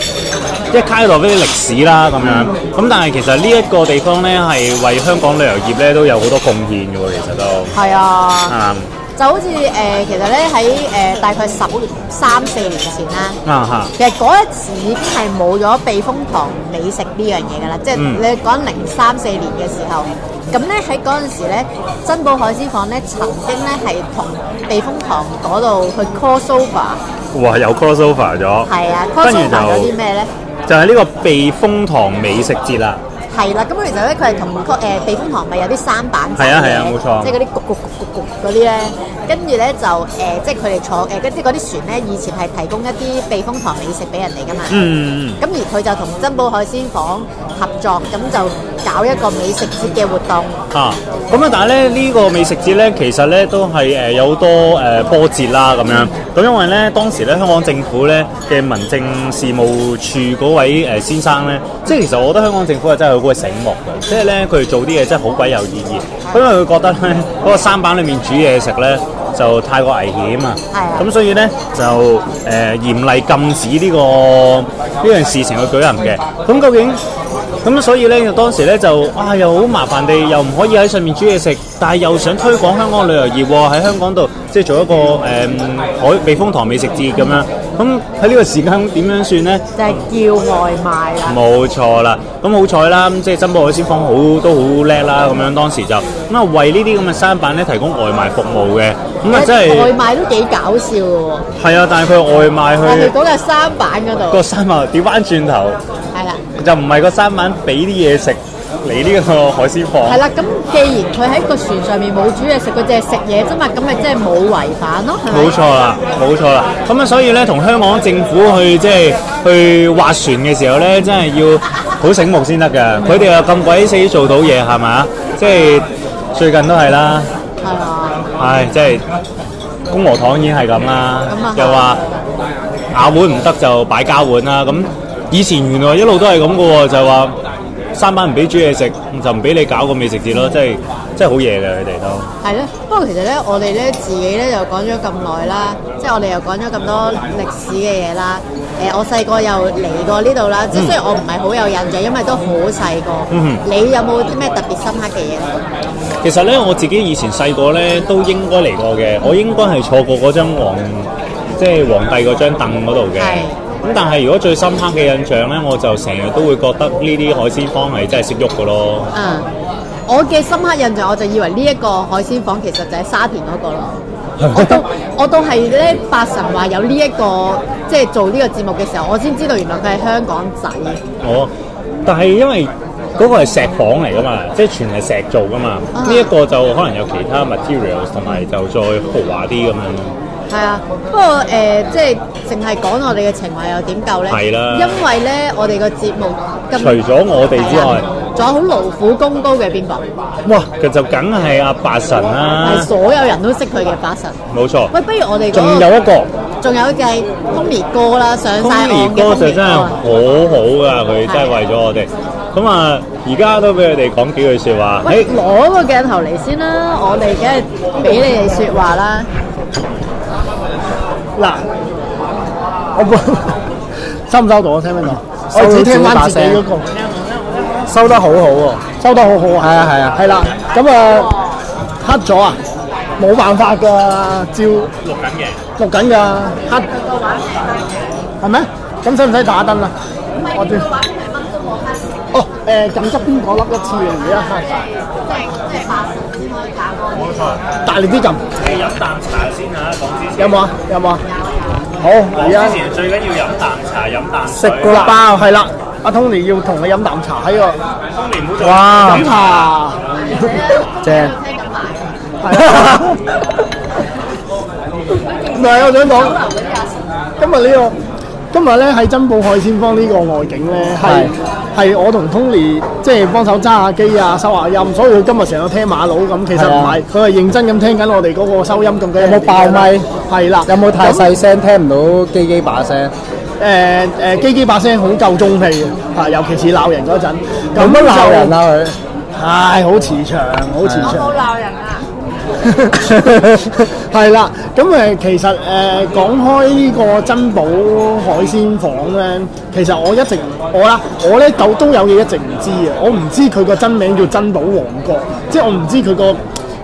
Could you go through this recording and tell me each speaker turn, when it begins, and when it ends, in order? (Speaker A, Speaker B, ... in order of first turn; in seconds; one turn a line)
Speaker A: 0.7-7.7
Speaker B: 2.2-2.5
Speaker B: 7.7-8.5
Speaker A: 8.5-8.9
Speaker B: 9.2-13.4
Speaker A: 13.4-13.9
Speaker B: 13.9-27.0
Speaker A: 17.9-18.2
Speaker A: 27.3-28.7
Speaker B: 28.6-30.3
Speaker A: 29.2-29.9
Speaker A: 30.7-33.0
Speaker B: 33.3-50.6
Speaker A: 36.4-37.3
Speaker A: 44.7-45.4
Speaker A: 50.7-77.0
Speaker B: 70.7-71.1
Speaker A: 77.6-89.7
Speaker B: 89.8-91.4
Speaker A: 91.2-99.9
Speaker B: 99.3-101.5
Speaker A: 101.6-103.1
Speaker B: 102.8-104.4
Speaker A: 104.3-105.8
Speaker B: 106.1-106.4
Speaker A: 106.5-110.2
Speaker B: 110.0-115.5
Speaker A: 115.3-127.3
Speaker B: 127.6-128.2
Speaker A: 128.4-129.0
Speaker A: 129.9-132.0
Speaker B: 131.3-132.1
Speaker A: 132.9-137.3
Speaker A: 137.9-142.3
Speaker B: 142.4-155.6
Speaker A: 153.3-153.6
Speaker A: 156.2-169.1
Speaker B: 163.2-163.6
Speaker B: 169.1-169.5
Speaker B: 170.1-174.0
Speaker A: 174.4-174.8
Speaker B: 174.5-181.0
Speaker A: 181.2-181.5
Speaker A: 182.0-190.1
Speaker B: 185.9-186.3
Speaker B: 190.5-200.1
Speaker A: 194.3-195.0
Speaker A: 196.8-198.0
Speaker A: 200.4-202.9
Speaker B: 202.6-204.4
Speaker A: 204.5-204.9
Speaker B: 204.9-205.9
Speaker A: 205.5-206.3
Speaker B: 206.6-209.9
Speaker A: 208.6-215.3
Speaker B: 211.3-211.6
Speaker B: 215.0-219.3
Speaker C: 221.3-221.6
Speaker C: 222.9-223.6
Speaker C: 224.3-226.9
Speaker D: 225.5-226.6
Speaker A: 227.0-227.8
Speaker D: 227.9-228.8
Speaker C: 229.0-231.3
Speaker D: 229.6-230.2
Speaker B: 230.9-231.6
Speaker C: 232.0-232.6
Speaker C: 233.2-234.9
Speaker A: 235.0-235.6
Speaker C: 235.8-236.9
Speaker B: 236.7-238.2
Speaker C: 238.4-240.8
Speaker B: 240.3-242.1
Speaker C: 242.3-244.7
Speaker B: 244.2-247.6
Speaker A: 247.2-247.6
Speaker C: 247.8-248.4
Speaker A: 248.6-250.7
Speaker C: 250.4-251.2
Speaker B: 251.3-251.9
Speaker C: 252.0-252.8
Speaker A: 252.3-255.2
Speaker C: 254.5-257.8
Speaker A: 258.1-259.6
Speaker D: 258.6-259.2
Speaker C: 258.7-260.0
Speaker B: 260.1-262.1
Speaker D: 261.0-261.3
Speaker C: 262.4-263.2
Speaker B: 265.2-267.1
Speaker C: 265.5-266.4
Speaker C: 267.4-267.9
Speaker C: 268.5-281.3
Speaker D: 271.0-271.3
Speaker D: 276.5-277.0
Speaker D: 279.2-280.1
Speaker D: 280.6-283.1
Speaker C: 283.6-288.5
Speaker D: 287.8-289.0
Speaker C: 289.3-291.3
Speaker D: 290.8-291.2
Speaker B: 291.0-292.1
Speaker C: 292.6-306.4